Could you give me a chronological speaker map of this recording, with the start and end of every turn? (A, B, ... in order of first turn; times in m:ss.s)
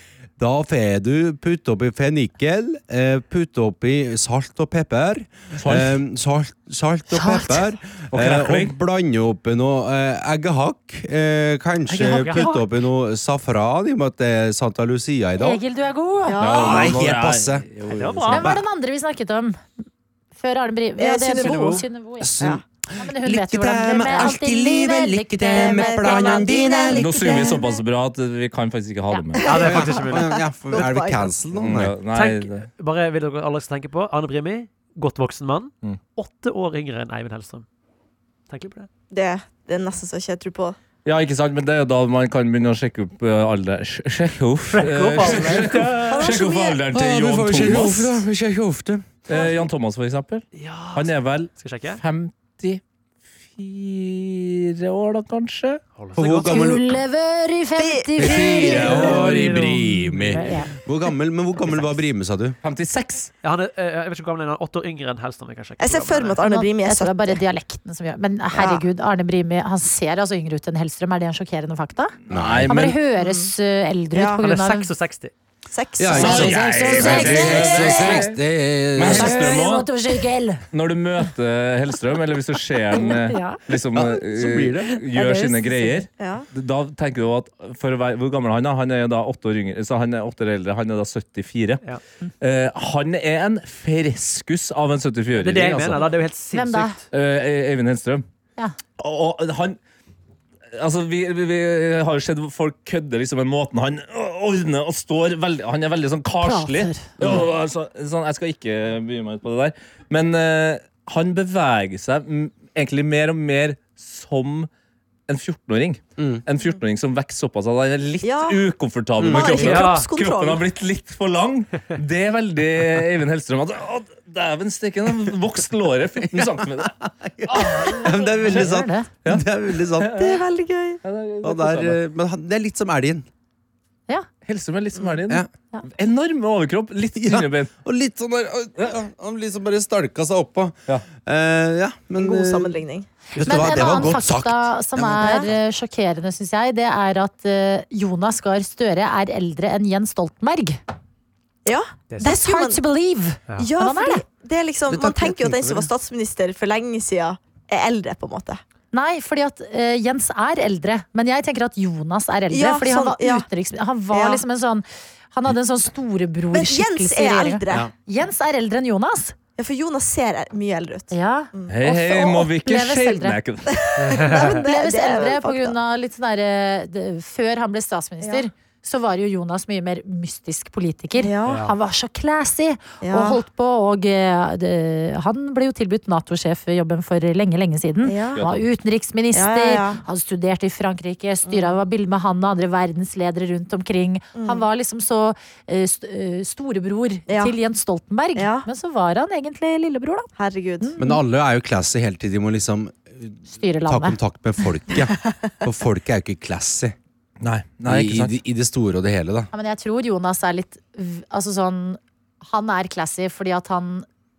0:00.4-0:15.6 A
0:05.6-0:06.0 B
0:07.2-0:07.6 C
0:08.1-0:08.7 B
0:12.0-0:12.6 D
0:15.4-0:16.4 C
0:16.3-0:17.0 E
0:16.4-0:18.5 B
0:16.4-0:17.7 A
0:17.9-0:18.5 D
0:18.3-0:19.6 C
0:18.3-0:18.6 A
0:20.4-0:22.4 C
0:21.0-0:21.8 E
0:21.5-0:21.8 D
0:22.2-0:27.1 A
0:23.0-0:26.5 C
0:25.5-0:27.8 E
0:26.9-0:29.5 B
0:27.2-0:27.6 C
0:29.4-0:31.3 E
0:29.4-0:30.4 D
0:29.5-0:32.0 A
0:31.6-0:32.7 B
0:32.1-0:37.6 D
0:38.5-0:38.9 D
0:39.1-0:40.8 E
0:41.0-0:48.2 B
0:44.7-0:46.3 D
0:46.1-0:46.8 E
0:46.9-0:49.1 A
0:49.3-0:52.8 B
0:50.6-0:52.0 D
0:53.6-0:55.8 B
0:56.0-0:56.7 D
0:56.2-0:57.0 A
0:56.4-0:59.2 C
0:57.8-0:58.9 E
0:58.2-1:02.6 A
0:58.6-0:59.7 B
0:58.9-1:00.4 D
1:00.3-1:00.7 C
1:02.6-1:03.3 B
1:03.4-1:06.4 D
1:05.8-1:07.4 E
1:06.4-1:12.2 C
1:08.5-1:08.8 E
1:12.3-1:13.0 B
1:12.3-1:12.8 A
1:12.7-1:14.9 C
1:13.2-1:13.5 E
1:14.2-1:14.4 E
1:14.4-1:15.3 D
1:15.7-1:16.6 E
1:16.0-1:19.6 A
1:16.1-1:18.4 B
1:16.2-1:18.3 C
1:19.0-1:19.9 B
1:19.0-1:20.6 C
1:20.7-1:31.8 B
1:23.0-1:23.6 C
1:23.9-1:25.0 A
1:25.1-1:26.0 C
1:26.2-1:26.5 E
1:32.4-1:36.0 B
1:35.4-1:37.0 D
1:36.5-1:37.0 C
1:37.1-1:38.2 B
1:39.0-1:39.8 B
1:40.7-1:54.7 B
1:46.4-1:47.1 C
1:47.2-1:47.5 A
1:55.3-2:06.9 B
1:58.2-1:58.6 E
1:59.2-1:59.6 A
1:59.2-2:00.6 E
1:59.5-2:00.1 D
2:06.3-2:10.2 A
2:07.5-2:08.6 B
2:08.4-2:09.1 C
2:09.2-2:10.4 B
2:10.1-2:11.0 E
2:11.0-2:12.0 B
2:11.4-2:13.3 A
2:14.4-2:17.7 B
2:17.2-2:22.8 A
2:22.2-2:23.1 E
2:23.4-2:25.4 A
2:23.4-2:30.8 C
2:25.2-2:25.5 E
2:31.6-2:32.8 E
2:32.2-2:34.2 C
2:33.6-2:38.6 E
2:34.9-2:35.9 A
2:38.9-2:49.4 C
2:42.5-2:43.5 E
2:44.1-2:44.4 E
2:46.5-2:47.9 E
2:49.6-2:51.8 E
2:51.1-2:53.4 C
2:51.7-2:53.8 B
2:53.7-2:55.8 E
2:54.0-2:54.6 D
2:54.3-3:20.3 C
3:01.2-3:01.6 E
3:01.5-3:01.7 D
3:03.0-3:03.4 E
3:08.0-3:08.4 E
3:08.4-3:08.6 B
3:09.3-3:10.0 E
3:11.5-3:11.8 E
3:14.4-3:14.6 E
3:17.3-3:17.5 E
3:18.4-3:18.7 E
3:20.4-3:20.9 E
3:20.8-3:21.2 C
3:21.0-3:27.0 A
3:23.5-3:24.2 C
3:27.4-3:28.4 B
3:27.9-3:29.5 A
3:29.5-3:34.1 C